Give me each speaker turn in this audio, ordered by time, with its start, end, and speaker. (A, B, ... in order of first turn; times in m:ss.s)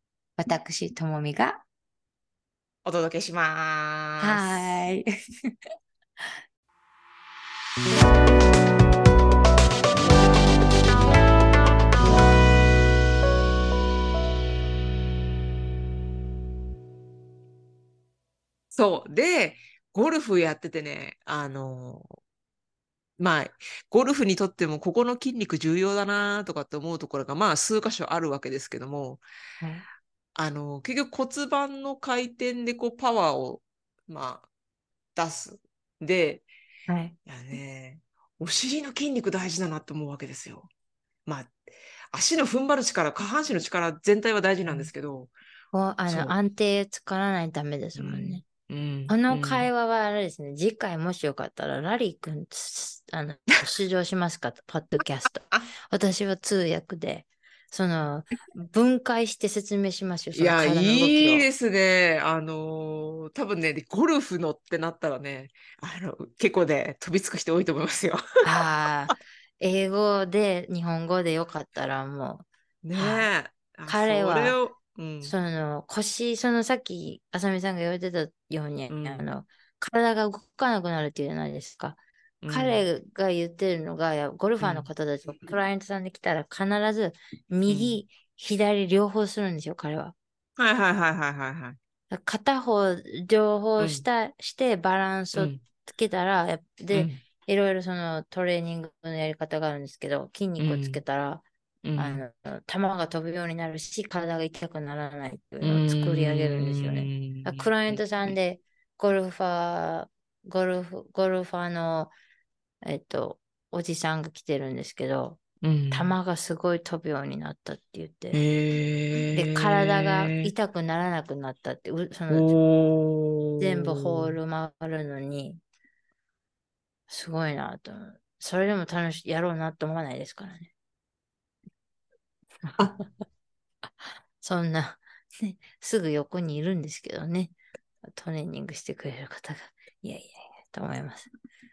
0:00.4-0:01.6 A
0:02.8-0:04.8 B
0:04.2-0:05.5 A
0:18.7-0:22.2 B
0:23.2-0:29.2 B
0:29.6-0:29.8 A
0:30.3-0:34.5 B
0:35.1-0:36.4 B
0:36.9-0:37.1 A
0:37.2-0:40.7 B
0:41.2-0:41.6 B
0:42.1-0:45.3 B
0:45.7-0:48.4 A
0:46.1-0:46.4 B
0:48.0-0:49.7 B
0:49.1-1:01.5 A
1:00.3-1:08.2 B
1:08.4-1:13.3 A
1:12.8-1:15.4 B
1:13.9-1:14.6 A
1:15.2-1:30.1 A
1:18.9-1:19.2 B
1:22.4-1:22.8 B
1:24.6-1:24.9 B
1:27.7-1:28.0 B
1:30.6-1:31.8 B
1:32.1-1:41.4 A
1:33.8-1:34.0 B
1:35.3-1:35.6 B
1:36.9-1:37.2 B
1:40.6-1:41.0 B
1:41.8-1:42.2 B
1:42.0-1:52.1 A
1:45.6-1:48.3 B
1:52.8-1:55.4 A
1:55.6-1:56.1 B
1:55.9-1:58.4 A
1:58.3-2:00.5 B
1:59.3-2:02.5 A
2:02.3-2:04.4 B
2:03.6-2:05.6 A
2:07.1-2:10.7 A
2:12.6-2:13.0 A
2:13.8-2:21.3 A